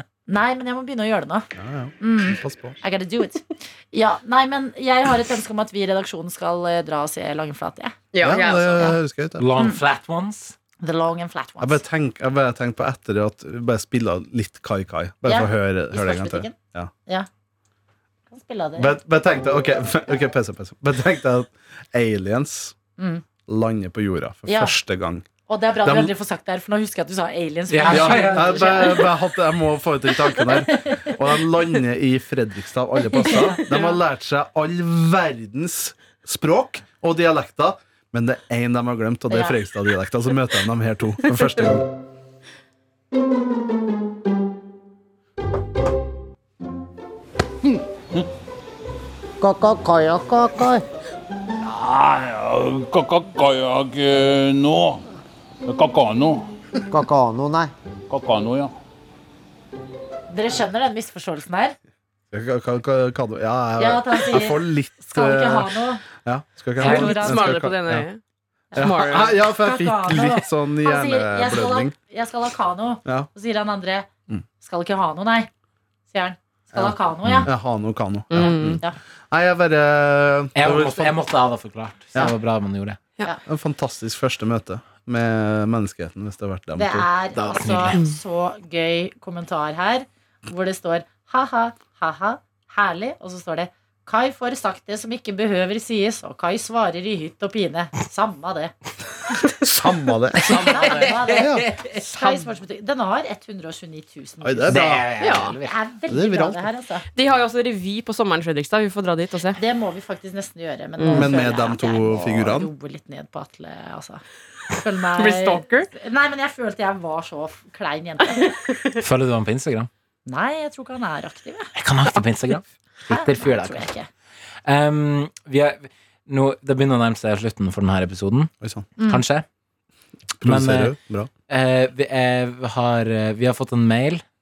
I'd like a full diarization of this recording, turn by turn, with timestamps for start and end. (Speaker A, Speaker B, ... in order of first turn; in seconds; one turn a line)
Speaker A: 0.3-1.5
Speaker B: 1.6-2.8
Speaker A: 2.0-8.0
Speaker C: 8.1-9.0
Speaker B: 8.2-9.5
Speaker D: 9.4-10.6
Speaker A: 10.8-11.8
Speaker B: 11.6-16.9
Speaker A: 15.3-17.3
Speaker A: 18.3-19.0
Speaker B: 18.8-22.8
Speaker A: 23.0-23.2
Speaker B: 23.5-25.3
Speaker A: 24.5-24.8
Speaker A: 25.5-29.1
Speaker B: 25.8-26.1
Speaker D: 27.7-28.9
Speaker B: 27.9-41.9
Speaker A: 30.6-31.2
Speaker C: 33.4-34.0
Speaker A: 39.3-39.6
Speaker E: 49.4-50.8
Speaker F: 51.6-55.0
Speaker F: 55.7-56.5
Speaker E: 56.9-57.7
Speaker F: 58.1-58.7
Speaker A: 60.3-61.8
Speaker B: 62.3-68.1
Speaker A: 63.8-66.0
Speaker A: 66.8-67.4
Speaker C: 66.8-68.2
Speaker D: 66.8-67.4
Speaker A: 68.7-74.1
Speaker B: 68.8-71.9
Speaker C: 68.8-69.4
Speaker A: 74.6-75.5
Speaker A: 76.1-77.5
Speaker B: 76.7-81.2
Speaker C: 78.3-78.8
Speaker A: 78.4-79.0
Speaker D: 80.5-83.0
Speaker B: 83.5-87.1
Speaker A: 86.8-98.7
Speaker D: 87.3-88.0
Speaker B: 99.6-101.7
Speaker D: 100.4-102.0
Speaker A: 100.4-104.8
Speaker C: 102.0-102.5
Speaker B: 104.4-105.1
Speaker D: 104.7-105.8
Speaker C: 105.2-105.6
Speaker A: 105.6-107.0
Speaker B: 106.1-106.7
Speaker C: 107.2-109.6
Speaker A: 109.6-114.2
Speaker C: 111.0-111.3
Speaker B: 111.1-112.7
Speaker A: 114.8-118.5
Speaker C: 115.2-115.9
Speaker C: 118.4-118.8
Speaker D: 119.0-119.9
Speaker A: 120.3-121.7
Speaker D: 121.8-123.9
Speaker A: 123.1-124.1
Speaker D: 124.7-129.4
Speaker B: 128.6-128.9
Speaker A: 129.0-129.2
Speaker B: 130.4-131.3
Speaker D: 130.4-130.9
Speaker D: 131.5-134.2